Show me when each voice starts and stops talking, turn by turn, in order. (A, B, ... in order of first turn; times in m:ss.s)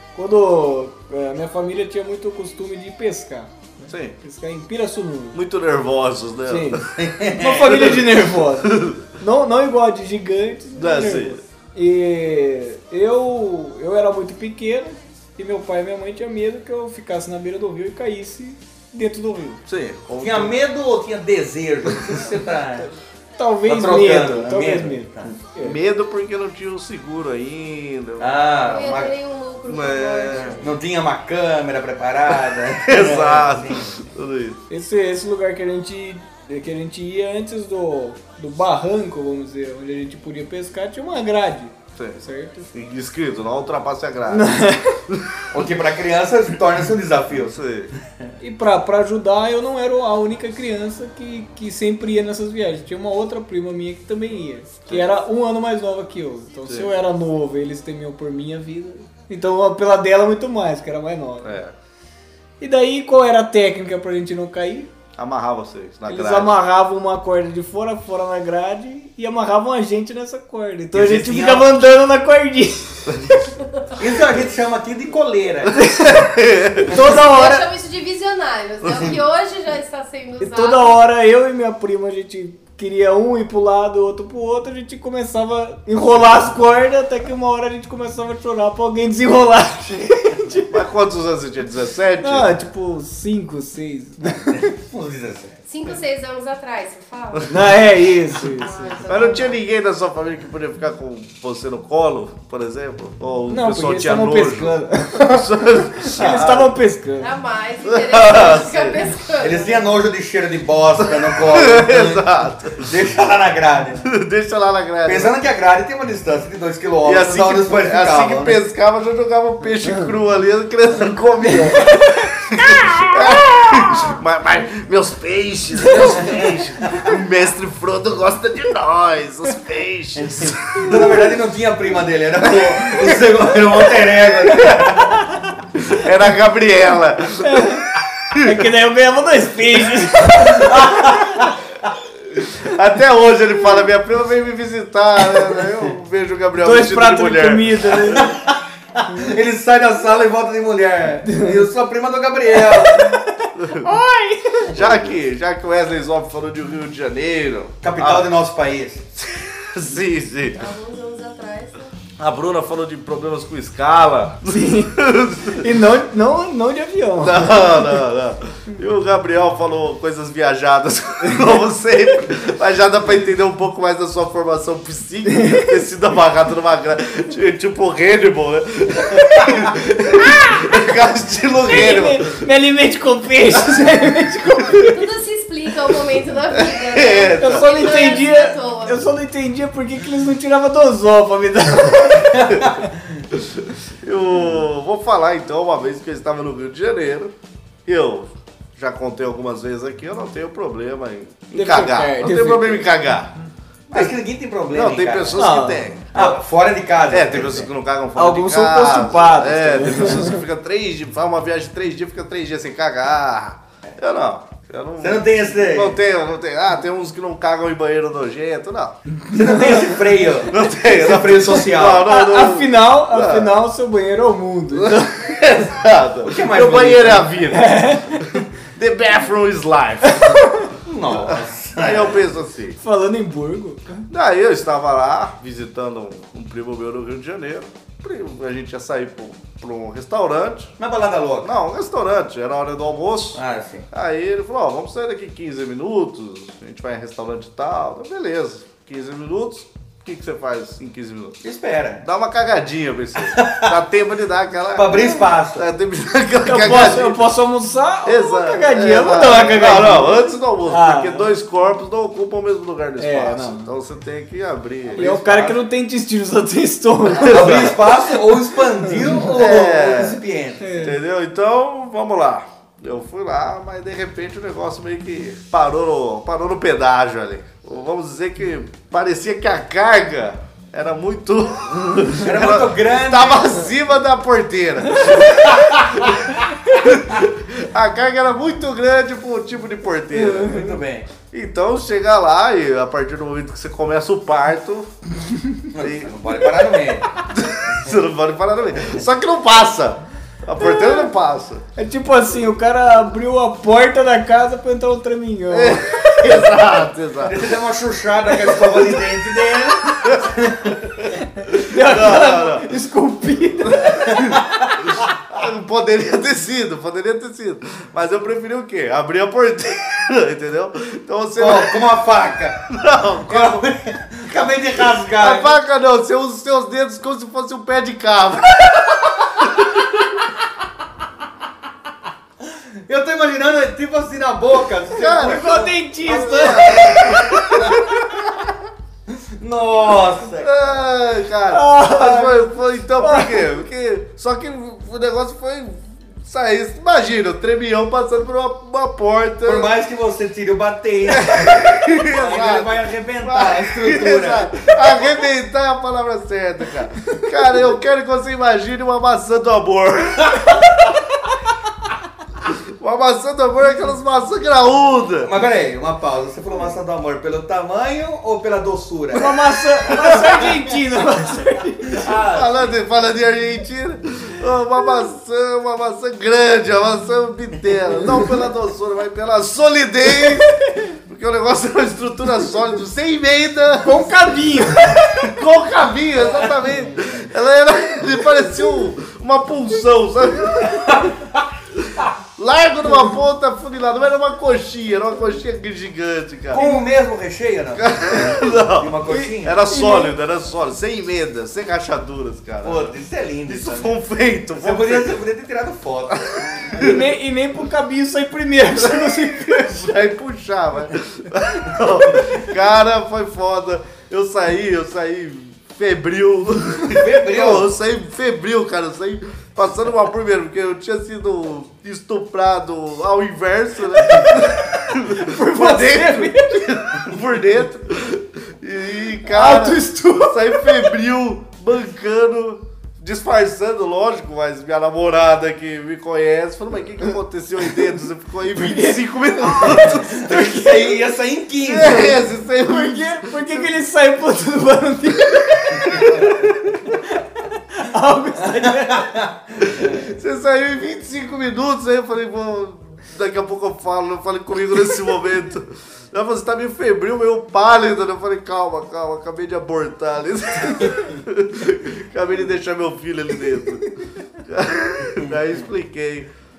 0:00.1-0:05.4 A
0:03.9-0:04.2 B
0:05.3-0:06.9 B
0:06.5-0:19.6 A
0:07.0-0:07.7 C
0:07.6-0:09.1 B
0:10.8-0:11.4 B
0:19.7-0:20.5 B
0:20.2-0:22.9 C
0:23.4-0:25.8 A
0:23.6-0:25.3 C
0:25.6-0:28.8 B
0:28.2-0:29.1 C
0:28.7-0:30.7 D
0:29.7-0:30.7 B
0:30.6-0:34.0 C
0:32.8-0:34.6 B
0:34.7-0:42.7 A
0:42.7-0:45.4 B
0:44.3-0:45.0 A
0:45.5-0:48.3 C
0:47.3-0:47.9 B
0:48.4-1:01.6 A
0:56.6-0:56.9 B
1:01.4-1:01.7 B
1:02.6-1:04.9 A
1:05.2-1:06.5 B
1:06.1-1:13.5 A
1:10.9-1:11.8 C
1:14.0-1:15.8 C
1:15.7-1:16.3 A
1:15.9-1:17.0 B
1:16.8-1:17.7 A
1:17.0-1:21.0 D
1:20.4-1:30.7 A
1:30.7-1:32.6 B
1:32.2-1:34.7 A
1:34.4-1:35.6 C
1:35.7-1:39.6 D
1:37.5-1:39.0 A
1:39.0-1:46.7 B
1:43.5-1:47.3 A
1:47.2-1:49.8 D
1:47.8-1:49.1 B
1:49.4-1:54.1 C
1:51.4-1:52.9 B
1:54.0-1:55.4 B
1:55.0-1:58.6 C
1:57.0-2:02.4 B
2:01.5-2:03.1 A
2:02.9-2:11.2 B
2:06.0-2:07.0 C
2:10.2-2:15.3 C
2:12.8-2:13.2 B
2:14.5-2:15.1 B
2:15.8-2:17.8 B
2:17.4-2:21.5 A
2:18.3-2:18.6 B
2:20.6-2:21.5 C
2:22.3-2:28.3 B
2:26.6-2:28.4 A
2:28.1-2:33.2 C
2:31.3-2:31.6 A
2:32.7-2:34.8 A
2:33.6-2:33.9 B
2:34.7-2:38.3 B
2:37.8-2:39.0 C
2:39.2-2:40.7 B
2:40.5-2:41.9 D
2:42.2-2:45.7 B
2:44.5-2:48.0 A
2:47.2-3:02.4 B
2:55.3-2:55.7 A
3:00.2-3:00.7 A
3:01.6-3:05.0 A
3:04.8-3:09.0 D
3:06.5-3:08.0 B
3:07.3-3:12.8 A
3:13.3-3:17.3 B
3:17.8-3:23.3 B
3:21.5-3:22.9 A
3:23.9-3:25.4 C
3:24.7-3:26.3 B
3:25.4-3:25.8 A
3:26.1-3:27.7 C
3:27.1-3:39.0 B
3:28.2-3:30.4 A
3:35.0-3:36.0 C
3:39.3-3:42.0 C
3:40.5-3:43.6 B
3:42.0-3:45.4 A
3:44.7-3:50.6 B
3:46.2-3:47.4 C
3:47.5-3:48.2 A
3:50.0-3:50.7 A
3:50.8-3:52.3 C
3:51.2-3:52.8 B
3:52.8-3:54.0 A
3:54.1-4:00.7 B
4:00.8-4:01.5 C
4:01.4-4:11.4 B
4:03.3-4:03.9 C
4:11.4-4:12.0 C
4:12.0-4:17.3 B
4:13.2-4:13.7 C
4:14.7-4:15.7 C
4:16.4-4:21.3 A
4:18.0-4:25.5 B
4:23.0-4:23.7 A
4:24.9-4:25.6 C
4:25.0-4:28.0 A
4:27.1-4:27.9 B
4:27.2-4:30.8 C
4:29.2-4:30.2 B
4:30.6-4:31.0 A
4:30.8-4:46.2 B
4:42.2-4:43.6 C
4:45.2-4:46.3 C
4:46.8-4:50.7 B
4:50.2-4:51.1 C
4:50.4-4:50.7 A
4:51.2-4:54.9 B
4:55.7-4:58.0 C
4:55.8-4:56.6 B
4:57.2-5:01.6 B
5:00.6-5:01.0 A
5:01.8-5:06.4 A
5:05.5-5:07.5 B
5:07.2-5:11.1 C
5:11.4-5:14.3 A
5:11.5-5:12.7 B
5:14.0-5:14.8 C
5:14.8-5:21.9 B
5:21.4-5:22.7 C
5:22.7-5:23.6 B
5:23.2-5:25.5 C
5:25.2-5:29.0 B
5:32.4-5:37.9 C
5:35.0-5:38.3 B
5:35.1-5:37.6 A
5:39.1-5:40.7 C
5:40.4-5:49.7 B
5:41.5-5:43.6 A
5:49.4-5:54.8 C
5:51.1-6:00.7 B
6:00.4-6:00.6 C
6:02.5-6:05.3 B
6:05.2-6:10.6 C
6:09.1-6:12.1 A
6:09.9-6:10.4 B
6:11.9-6:12.7 C
6:12.3-6:24.2 B
6:20.3-6:20.8 A
6:23.8-6:25.3 A
6:25.2-6:30.9 B
6:26.4-6:26.7 C
6:30.8-6:31.4 C
6:31.7-6:36.6 B
6:36.5-6:39.6 C
6:37.8-6:42.9 B
6:39.1-6:40.1 A
6:42.6-6:44.0 C
6:43.5-6:45.2 B
6:44.6-6:46.9 C
6:46.1-6:47.0 B
6:46.7-6:49.8 A
6:48.8-7:20.5 B
6:56.8-6:57.7 C
7:04.2-7:06.8 A
7:09.3-7:10.9 A
7:18.5-7:20.0 A
7:19.6-7:22.2 C
7:21.6-7:23.6 B
7:22.6-7:29.1 A
7:26.0-7:26.4 B
7:28.4-7:30.1 C
7:29.6-7:46.3 B